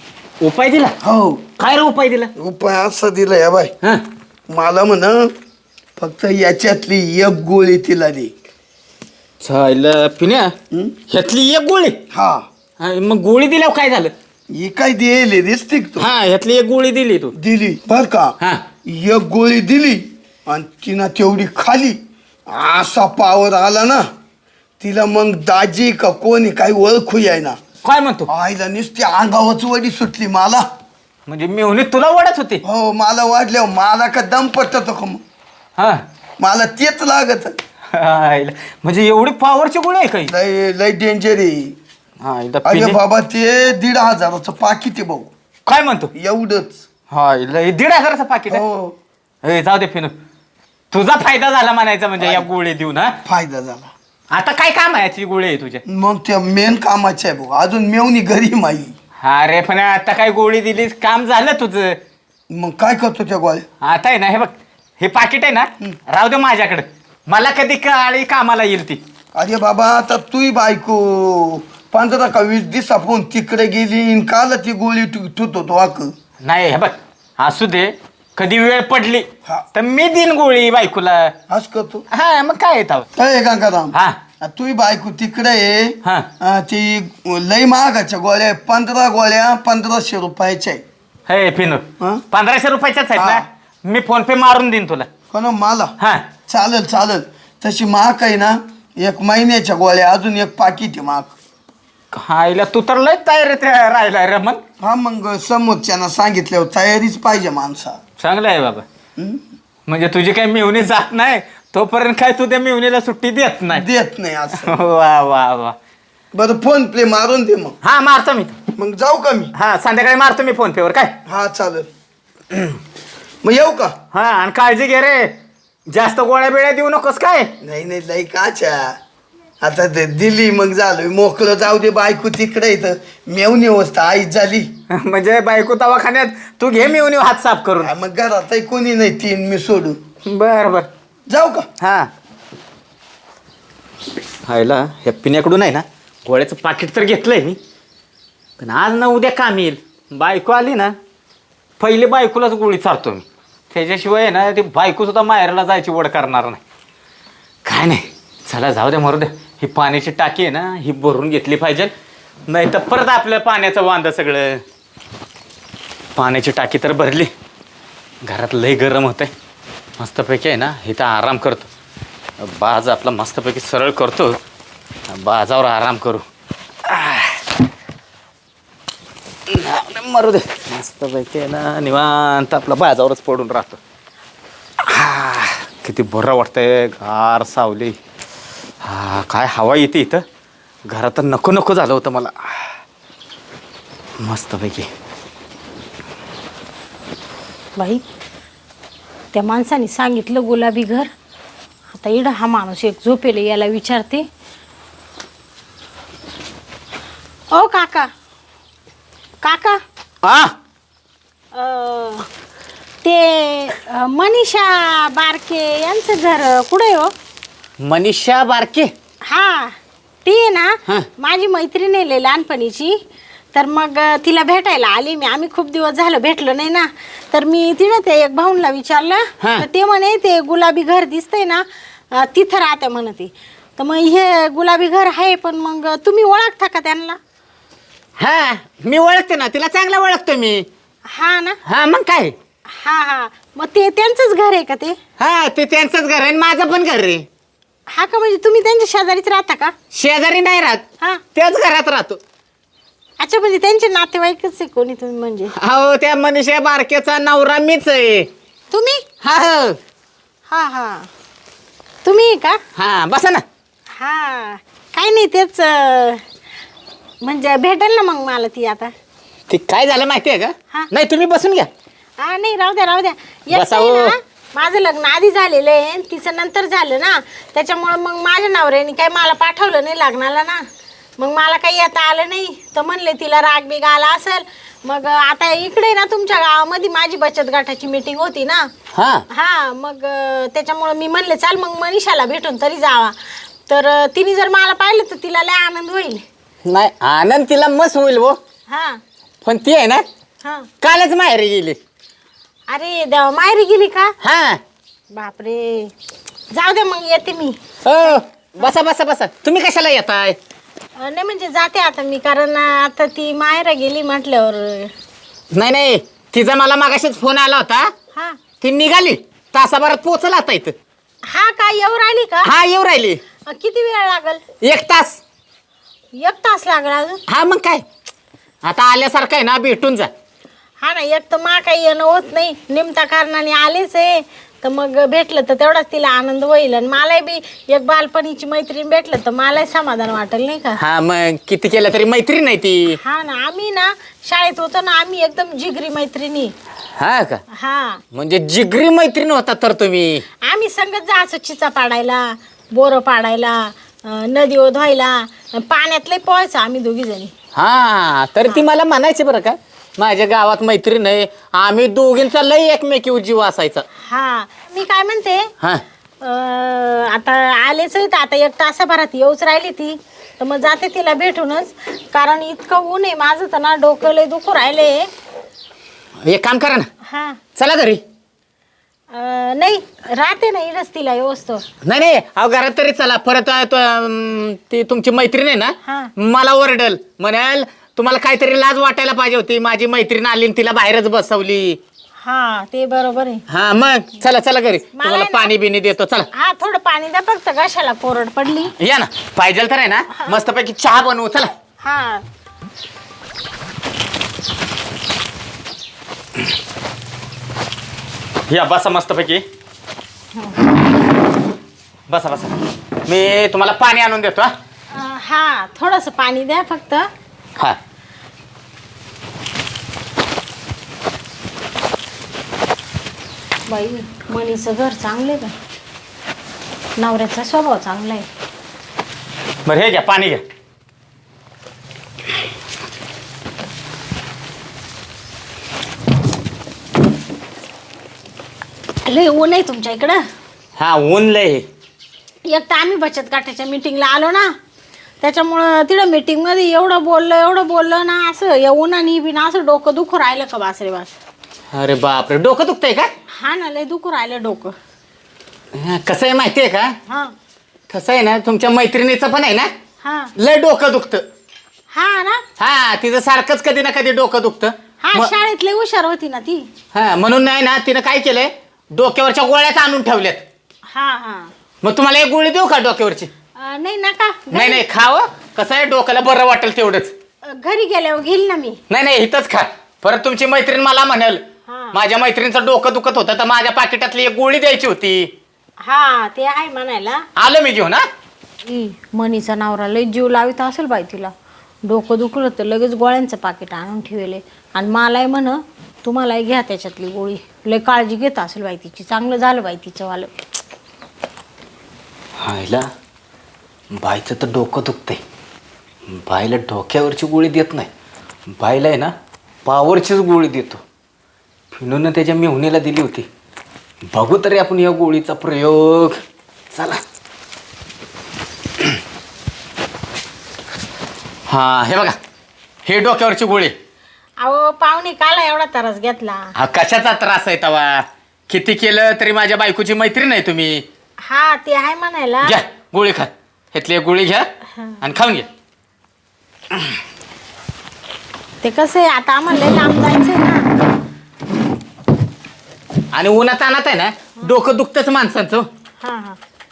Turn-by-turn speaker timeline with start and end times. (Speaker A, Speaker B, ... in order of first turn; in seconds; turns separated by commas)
Speaker A: 0.4-0.9, Speaker B: 1.0-1.5, Speaker A: 1.6-2.3, Speaker B: 2.4-3.7, Speaker B: 4.5-5.3, Speaker B: 6.0-8.3, Speaker A: 9.4-10.5, Speaker A: 11.1-12.0, Speaker B: 12.1-12.5, Speaker A: 12.8-14.1, Speaker B: 14.5-16.1, Speaker A: 16.0-17.3, Speaker B: 17.3-24.1, Speaker A: 18.4-18.6, Speaker B: 24.8-27.6, Speaker A: 27.8-28.3, Speaker B: 28.3-30.6, Speaker A: 31.3-32.6, Speaker B: 32.6-35.2, Speaker A: 35.8-36.0, Speaker B: 36.4-37.6, Speaker A: 37.9-40.3, Speaker B: 40.3-41.8, Speaker A: 42.2-43.0, Speaker B: 42.6-45.3, Speaker A: 45.6-46.1, Speaker B: 46.1-46.8, Speaker A: 47.1-48.6, Speaker B: 48.5-48.9, Speaker A: 49.4-50.1, Speaker A: 50.9-53.2, Speaker B: 52.2-52.5, Speaker B: 53.2-53.9, Speaker A: 54.3-55.8, Speaker B: 55.9-58.9, Speaker A: 59.2-62.0, Speaker B: 62.5-63.6, Speaker A: 63.8-69.0, Speaker B: 69.3-76.1, Speaker A: 76.4-81.3, Speaker B: 81.5-82.0, Speaker A: 82.1-83.1, Speaker B: 83.2-90.8, Speaker A: 83.9-84.2, Speaker A: 86.0-86.3, Speaker A: 91.3-95.1, Speaker B: 93.2-93.4, Speaker B: 95.3-95.9, Speaker A: 96.0-96.3, Speaker B: 96.5-101.3, Speaker A: 102.1-104.6, Speaker B: 104.8-108.0, Speaker A: 108.2-108.8, Speaker B: 109.2-109.4, Speaker A: 109.9-113.8, Speaker B: 113.7-114.8, Speaker A: 114.6-115.8, Speaker B: 116.3-117.8, Speaker A: 117.8-118.6, Speaker B: 118.8-119.5, Speaker A: 119.5-121.1, Speaker B: 121.2-121.9, Speaker B: 123.4-124.0, Speaker A: 124.1-125.3, Speaker A: 125.9-127.5, Speaker B: 127.6-129.0, Speaker B: 129.6-134.7, Speaker A: 134.9-137.9, Speaker B: 137.8-140.0, Speaker A: 140.2-140.9, Speaker B: 141.3-141.7, Speaker A: 141.8-142.1, Speaker A: 144.4-147.6, Speaker A: 148.6-150.9, Speaker A: 151.8-156.6, Speaker A: 157.7-161.9, Speaker A: 162.5-164.6, Speaker A: 166.2-167.3, Speaker A: 168.2-169.3, Speaker A: 170.0-171.7, Speaker A: 172.4-174.4, Speaker A: 175.1-176.2, Speaker A: 176.8-177.4, Speaker A: 179.5-183.8, Speaker A: 184.8-187.9, Speaker A: 188.8-190.2, Speaker A: 190.9-192.7, Speaker A: 194.2-194.9, Speaker C: 197.8-198.0, Speaker C: 199.3-201.1, Speaker C: 201.9-204.2, Speaker C: 207.5-208.1, Speaker C: 209.4-209.8, Speaker A: 210.2-210.5, Speaker C: 211.5-212.3, Speaker C: 213.0-217.1, Speaker A: 217.8-218.9, Speaker C: 219.2-222.9, Speaker C: 223.5-237.2, Speaker A: 229.4-229.7, Speaker A: 238.2-240.7, Speaker C: 241.1-241.6, Speaker A: 241.6-242.3, Speaker C: 242.7-245.0, Speaker A: 245.2-247.2, Speaker C: 247.9-249.7, Speaker A: 249.9-252.2, Speaker C: 253.2-255.5, Speaker A: 255.5-258.3, Speaker C: 258.7-259.1, Speaker A: 259.2-259.8, Speaker C: 260.5-261.1, Speaker C: 262.0-262.6, Speaker A: 262.7-263.4, Speaker C: 263.9-266.2, Speaker C: 267.2-268.9, Speaker A: 269.5-271.7, Speaker C: 272.2-280.6, Speaker A: 273.5-274.1, Speaker C: 281.2-288.7, Speaker A: 288.9-289.2, Speaker C: 289.3-296.2, Speaker A: 296.6-298.4, Speaker C: 298.7-299.0, Speaker A: 299.4-300.0, Speaker C: 300.4-300.7, Speaker A: 300.8-301.8, Speaker C: 302.7-304.1, Speaker A: 304.2-304.6, Speaker C: 305.1-305.9, Speaker C: 306.5-308.7, Speaker A: 307.8-310.4, Speaker C: 311.0-314.9, Speaker A: 315.5-317.9, Speaker C: 318.1-318.4, Speaker A: 318.6-320.7, Speaker C: 321.2-322.5, Speaker A: 322.4-323.2, Speaker C: 323.4-324.4, Speaker A: 324.6-325.2, Speaker C: 326.2-327.2, Speaker A: 327.3-327.8, Speaker A: 328.6-330.1, Speaker C: 330.8-340.8, Speaker A: 340.8-343.0, Speaker C: 343.0-346.5, Speaker A: 347.0-347.4, Speaker C: 347.5-348.0, Speaker A: 348.1-350.2, Speaker C: 350.4-357.3, Speaker A: 357.5-363.9, Speaker C: 364.0-365.5, Speaker C: 366.2-375.1, Speaker A: 376.2-376.9, Speaker C: 377.0-377.4, Speaker A: 377.6-378.0, Speaker C: 379.1-381.6, Speaker A: 381.8-391.8, Speaker C: 385.8-386.1, Speaker C: 392.2-393.4, Speaker A: 393.5-396.3, Speaker C: 394.9-395.5, Speaker C: 396.3-398.7, Speaker A: 398.7-401.5, Speaker C: 401.8-402.2, Speaker A: 408.5-409.4, Speaker C: 410.3-410.7, Speaker A: 412.1-414.5, Speaker C: 414.9-417.1, Speaker C: 423.7-425.6, Speaker C: 427.0-428.3, Speaker A: 429.6-430.4, Speaker C: 439.0-440.2, Speaker A: 440.8-441.6, Speaker C: 442.5-444.5, Speaker C: 445.2-451.1, Speaker A: 451.7-453.1, Speaker C: 453.3-454.7, Speaker A: 455.7-457.0, Speaker A: 457.9-459.7, Speaker C: 460.0-460.3, Speaker A: 460.4-461.2, Speaker C: 461.9-462.4, Speaker A: 462.6-465.3, Speaker C: 465.0-466.7, Speaker A: 466.9-470.4, Speaker C: 470.9-471.5, Speaker A: 471.8-473.3, Speaker C: 473.6-474.8, Speaker A: 474.5-477.1, Speaker C: 477.4-478.8, Speaker A: 478.9-485.3, Speaker C: 481.7-482.0, Speaker C: 485.8-487.2, Speaker A: 487.4-488.1, Speaker C: 488.6-491.3, Speaker C: 491.8-500.3, Speaker A: 502.4-502.9, Speaker A: 503.9-505.2, Speaker A: 506.1-507.9, Speaker A: 508.5-509.1, Speaker A: 509.6-510.8, Speaker A: 511.7-513.3, Speaker A: 514.1-516.2, Speaker A: 516.7-517.0, Speaker A: 521.5-522.2, Speaker A: 522.8-523.7, Speaker C: 524.4-526.5, Speaker A: 526.5-530.8, Speaker C: 531.2-532.6, Speaker A: 532.4-534.5, Speaker A: 535.0-535.5, Speaker C: 538.6-540.7, Speaker A: 543.1-545.7, Speaker C: 546.0-546.4